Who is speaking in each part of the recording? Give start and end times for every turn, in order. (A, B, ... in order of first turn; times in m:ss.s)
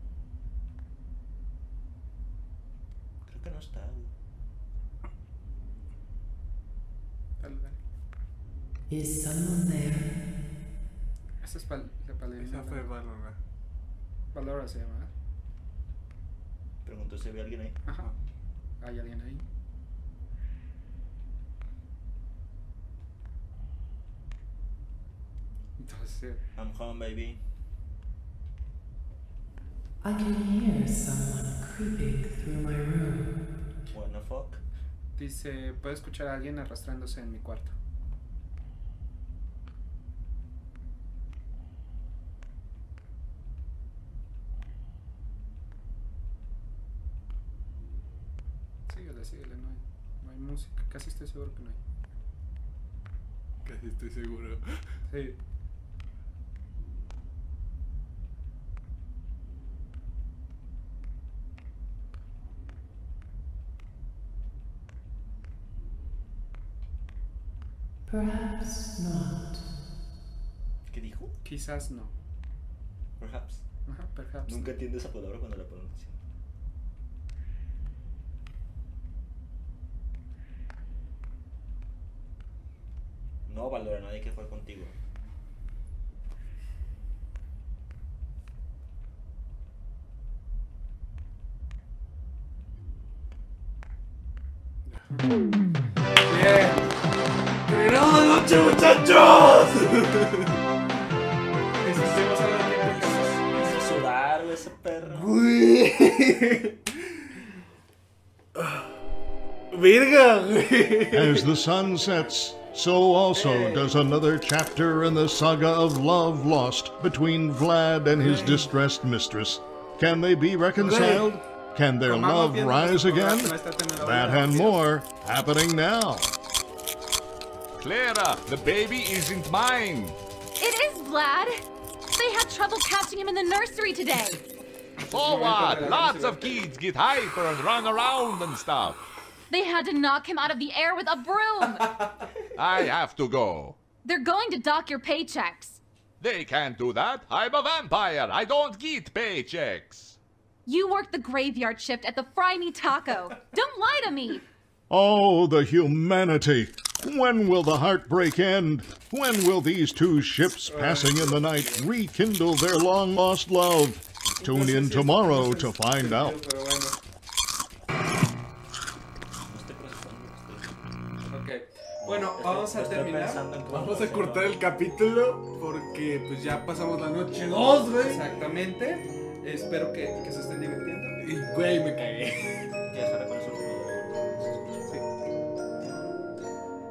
0:03.2-0:04.1 A
0:07.4-0:07.8 B
0:08.9-0:10.2 C
0:11.4-0:12.9 B
0:12.4-0:13.4 D
0:14.3-0:15.1 B
0:16.8-0:17.8 A
0:18.8-0:19.4 B
0:25.8-0:26.4 B
0:26.6-0:27.4 A
0:30.0-0:33.4 C
0:33.9-0:34.6 A
0:35.2-0:37.7 B
0:48.9-0:51.8 B
0:53.6-0:54.8 D
0:55.1-0:55.4 B
1:08.1-1:09.6 C
1:10.8-1:11.4 A
1:11.4-1:12.1 B
1:13.2-1:13.6 A
1:13.9-1:14.8 B
1:14.4-1:16.2 A
1:23.4-1:24.9 A
1:36.3-1:36.8 D
1:37.7-1:40.6 D
1:41.8-1:43.4 B
1:42.8-1:45.3 A
1:45.1-1:46.7 D
1:48.6-1:48.9 D
1:49.7-1:51.5 D
1:51.1-2:06.3 E
1:53.3-1:53.9 B
1:58.2-1:58.7 B
2:00.8-2:01.4 B
2:00.8-2:01.3 D
2:02.0-2:04.9 B
2:07.8-2:10.2 F
2:10.6-2:11.6 G
2:12.2-2:14.4 G
2:15.0-2:16.7 B
2:15.1-2:19.0 F
2:19.5-2:22.0 G
2:22.6-2:23.8 F
2:24.0-2:25.8 G
2:26.2-2:30.2 F
2:30.6-2:34.4 G
2:34.9-2:46.4 E
2:40.6-2:41.9 B
2:44.4-2:47.0 B
2:49.4-2:50.8 A
2:51.3-2:53.4 B
2:52.0-2:54.6 A
2:53.7-2:58.2 D
2:58.0-3:01.2 B
3:01.2-3:02.7 D
3:02.9-3:05.0 A